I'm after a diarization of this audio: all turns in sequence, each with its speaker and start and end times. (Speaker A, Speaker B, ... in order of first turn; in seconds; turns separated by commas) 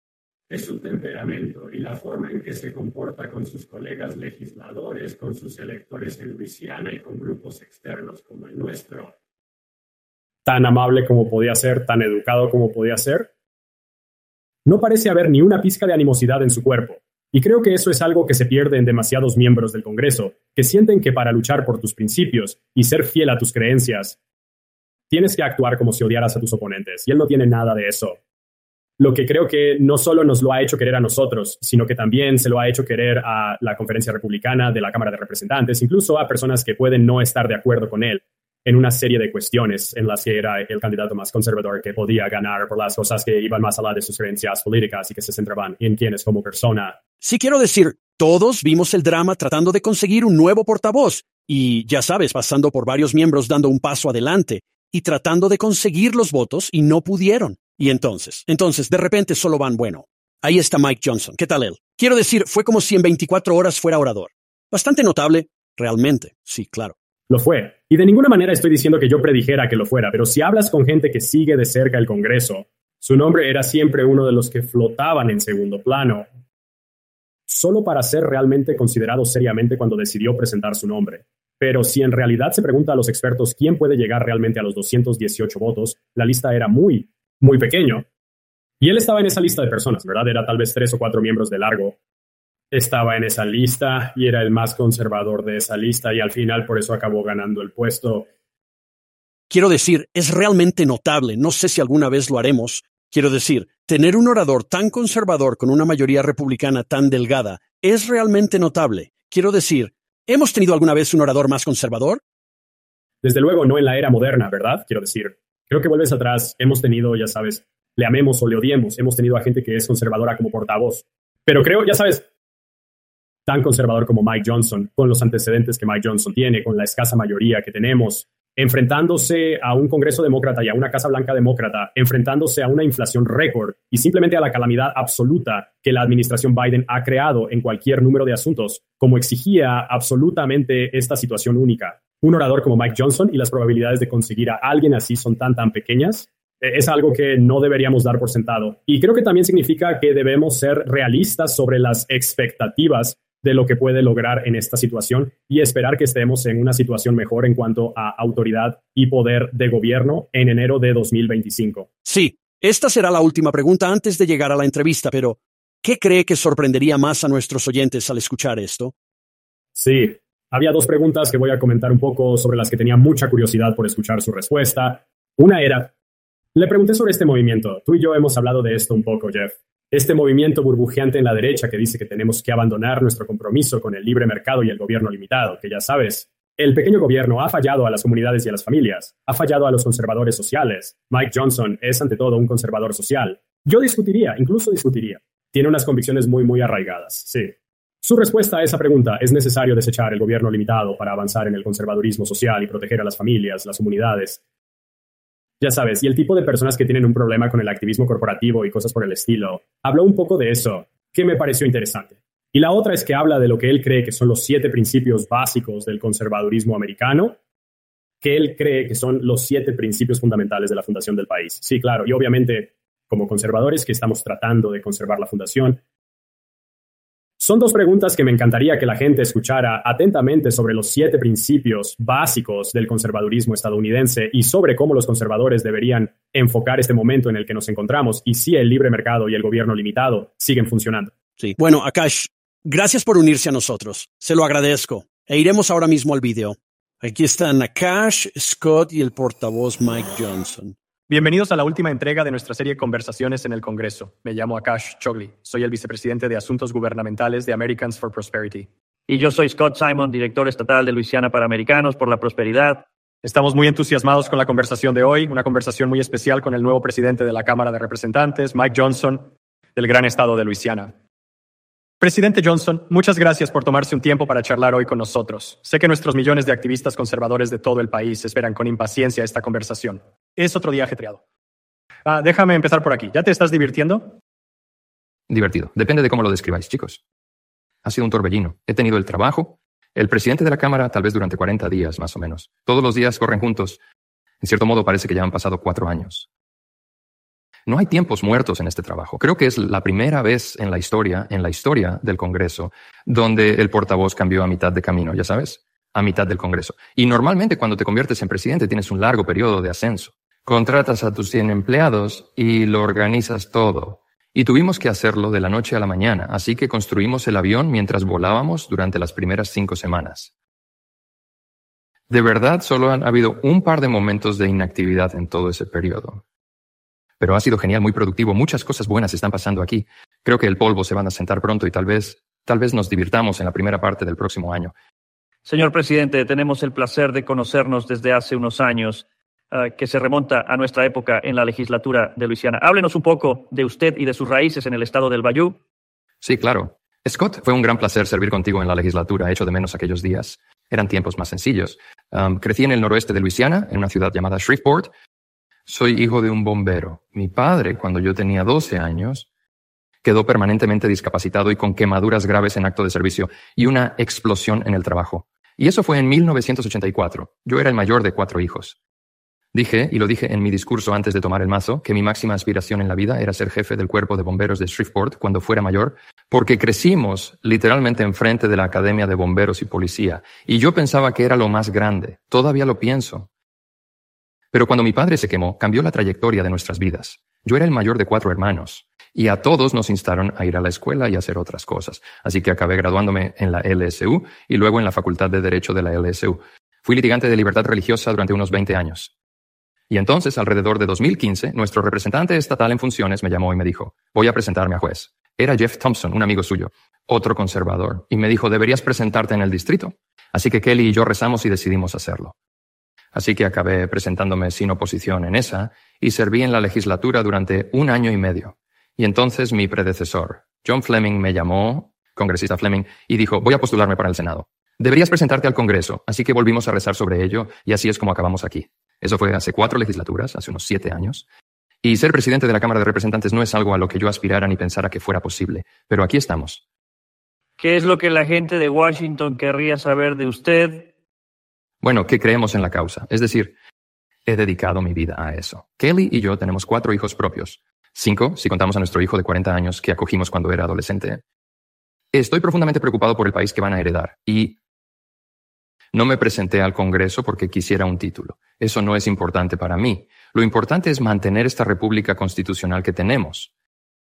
Speaker A: 0.5-9.1, Speaker B: 10.4-13.3, Speaker B: 14.6-24.2, Speaker B: 25.1-28.2, Speaker B: 29.0-47.0, Speaker C: 47.2-66.9, Speaker B: 67.3-76.3, Speaker B: 77.5-88.0, Speaker B: 88.8-92.0, Speaker B: 92.7-98.3, Speaker C: 99.5-112.2, Speaker B: 113.2-122.2, Speaker B: 123.5-161.9, Speaker C: 162.0-168.9, Speaker B: 169.8-175.9, Speaker B: 176.5-204.4, Speaker B: 205.6-217.4, Speaker B: 218.2-225.8, Speaker B: 227.4-241.1, Speaker C: 241.4-250.7, Speaker D: 251.1-258.7, Speaker E: 259.1-262.9, Speaker D: 263.2-270.9, Speaker D: 272.0-281.2, Speaker D: 282.1-284.1, Speaker F: 285.3-287.0, Speaker F: 287.8-293.8, Speaker F: 294.4-296.3, Speaker F: 297.7-320.3, Speaker F: 322.1-326.2, Speaker F: 327.2-334.7, Speaker E: 335.4-345.6, Speaker F: 346.2-354.9, Speaker F: 355.7-359.3, Speaker F: 360.0-368.8, Speaker F: 369.5-383.3, Speaker F: 384.5-399.1, Speaker F: 399.9-412.3, Speaker F: 413.1-431.2, Speaker F: 431.8-436.6, Speaker E: 437.6-440.9, Speaker F: 441.8-443.5, Speaker F: 444.2-451.2, Speaker F: 452.1-454.6, Speaker F: 455.9-463.5